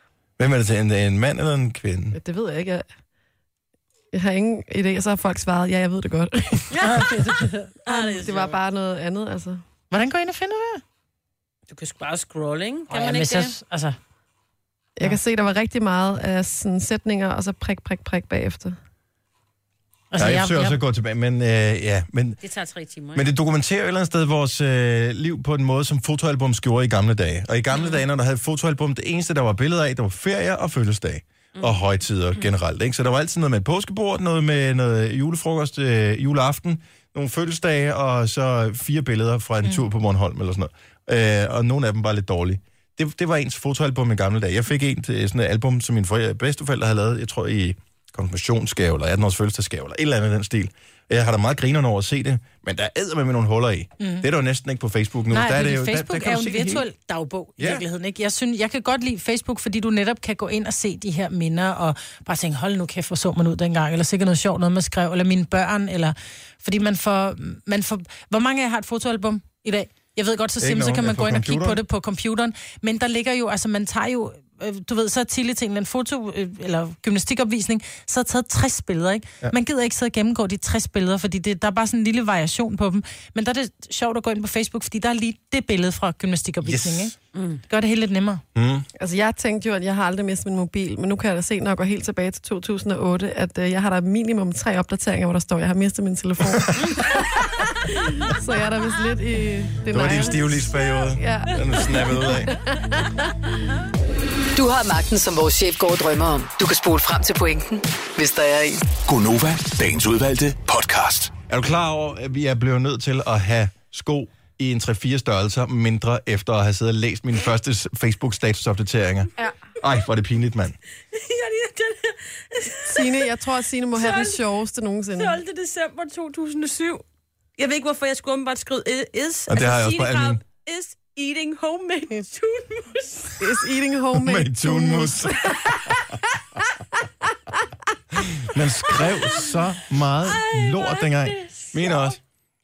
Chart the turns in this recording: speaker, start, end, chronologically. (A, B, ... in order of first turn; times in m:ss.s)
0:00.4-0:02.2 A
0:02.1-0:02.8 B
0:04.1-0:06.7 B
0:06.7-0:08.6 C
0:06.8-0:07.7 D
0:07.9-0:09.6 B
0:09.9-0:10.8 D
0:11.7-0:13.6 C
0:12.9-0:14.0 D
0:15.0-0:18.8 B
0:20.1-0:20.8 D
0:20.2-0:22.4 A
0:22.4-0:23.2 C
0:23.1-0:56.9 A
0:27.7-0:28.0 C
0:31.6-0:31.8 C
0:54.0-0:54.3 D
0:55.3-1:27.1 D
0:57.6-0:57.8 A
1:10.6-1:11.8 A
1:26.6-1:27.2 A
1:27.4-1:27.6 C
1:27.7-1:28.4 D
1:28.6-1:28.9 A
1:29.0-1:37.5 B
1:36.5-1:37.0 A
1:38.0-1:43.1 B
1:39.9-1:42.6 A
1:44.5-1:48.8 E
1:48.9-1:51.4 F
1:51.5-2:00.8 A
2:01.1-2:03.3 C
2:02.8-2:05.4 B
2:04.0-2:04.4 C
2:05.2-2:07.0 C
2:07.6-2:13.4 C
2:09.5-2:10.4 A
2:13.4-2:15.9 B
2:14.1-2:16.0 A
2:18.3-2:22.2 A
2:20.2-2:22.2 C